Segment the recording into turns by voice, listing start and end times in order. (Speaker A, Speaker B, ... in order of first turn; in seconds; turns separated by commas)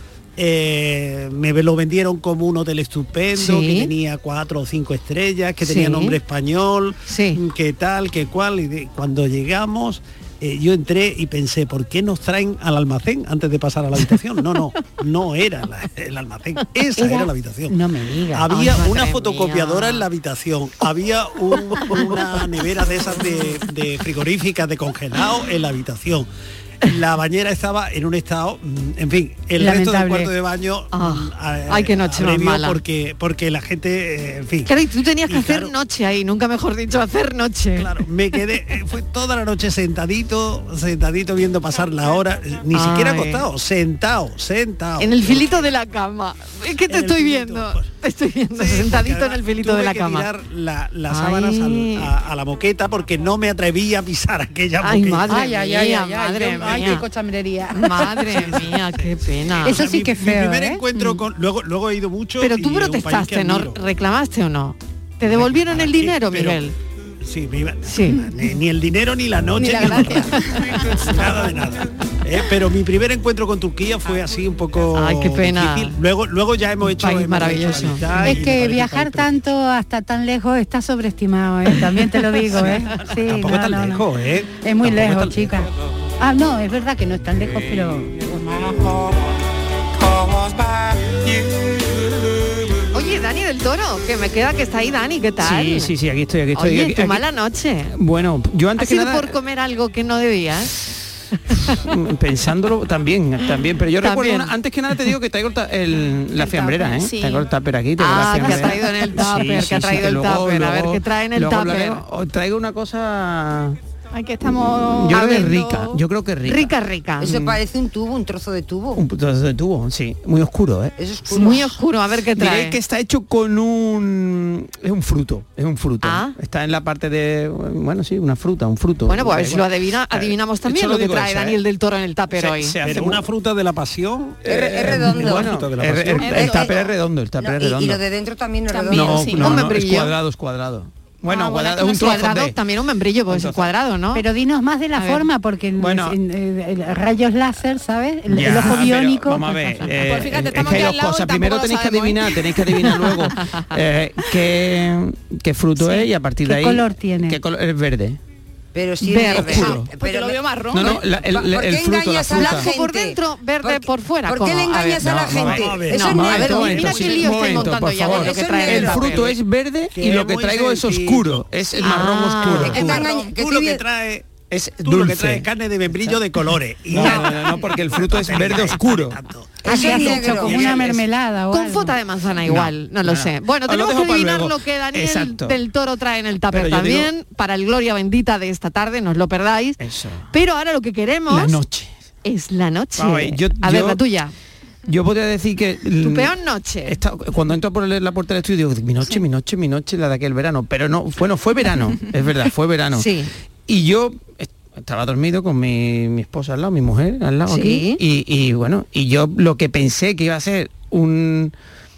Speaker A: 0.4-17.8, Speaker B: 3.4-3.9, Speaker B: 5.6-6.2, Speaker B: 7.1-7.4, Speaker C: 16.9-18.5, Speaker A: 18.3-26.3, Speaker B: 18.5-20.0, Speaker B: 21.9-22.2, Speaker A: 26.8-34.7, Speaker C: 29.6-30.3, Speaker B: 30.9-32.8, Speaker B: 34.6-37.9, Speaker A: 35.3-35.7, Speaker A: 37.8-45.7, Speaker B: 42.7-43.4, Speaker B: 45.0-50.3, Speaker A: 46.9-47.9, Speaker A: 48.5-55.4, Speaker B: 51.1-52.1, Speaker B: 54.8-57.0, Speaker C: 55.3-58.5, Speaker B: 57.7-59.8, Speaker A: 58.2-63.8, Speaker C: 59.6-60.8, Speaker B: 62.4-66.7, Speaker A: 65.2-66.6, Speaker A: 67.2-79.4, Speaker B: 67.8-68.2, Speaker D: 69.6-70.5, Speaker B: 74.9-76.0, Speaker B: 77.0-78.3, Speaker C: 78.2-85.7, Speaker A: 82.5-85.7, Speaker C: 86.2-88.7, Speaker B: 92.9-95.9, Speaker E: 95.4-97.2, Speaker B: 96.5-98.0, Speaker E: 97.9-99.4, Speaker B: 98.8-100.8, Speaker E: 101.7-113.8, Speaker B: 104.0-104.5, Speaker D: 106.4-107.5, Speaker B: 108.0-112.0, Speaker D: 114.1-116.0, Speaker E: 114.8-116.7, Speaker B: 115.1-115.5, Speaker B: 116.4-117.4, Speaker F: 117.2-119.0, Speaker E: 117.3-117.6, Speaker E: 119.0-120.9, Speaker F: 121.0-121.8, Speaker B: 121.3-122.8, Speaker E: 122.3-131.6, Speaker B: 126.0-126.3, Speaker B: 129.1-132.8, Speaker E: 132.3-133.3, Speaker A: 132.8-136.5, Speaker F: 134.5-135.5, Speaker E: 134.5-138.0, Speaker D: 136.2-136.6, Speaker F: 136.3-139.6, Speaker D: 138.7-139.4, Speaker E: 138.9-142.6, Speaker B: 139.3-140.1, Speaker B: 141.3-144.2, Speaker E: 143.3-143.7, Speaker C: 144.1-149.9, Speaker B: 144.9-145.3, Speaker E: 145.8-146.2, Speaker E: 148.3-158.2, Speaker D: 150.1-152.2, Speaker B: 152.8-153.6, Speaker C: 155.8-157.4, Speaker F: 158.7-166.8, Speaker B: 159.0-159.8, Speaker E: 159.2-159.9, Speaker D: 160.0-160.9, Speaker E: 160.7-162.7, Speaker B: 162.3-169.3, Speaker E: 165.0-173.0, Speaker A: 165.4-167.7, Speaker F: 168.0-169.3, Speaker A: 169.9-180.9, Speaker B: 171.8-173.0, Speaker F: 172.6-173.8, Speaker E: 174.5-176.2, Speaker E: 176.9-179.2, Speaker F: 177.0-177.3, Speaker F: 179.6-180.8, Speaker C: 179.6-182.0, Speaker E: 180.4-181.0, Speaker B: 181.5-189.8, Speaker E: 182.4-185.6, Speaker E: 186.5-187.1, Speaker E: 189.8-190.3, Speaker B: 190.3-191.6, Speaker E: 191.3-191.9, Speaker B: 192.2-194.3, Speaker E: 192.9-194.0, Speaker E: 194.9-196.3, Speaker B: 196.0-197.0, Speaker E: 196.8-203.1, Speaker B: 202.9-203.3, Speaker E: 203.7-211.5, Speaker B: 207.5-208.0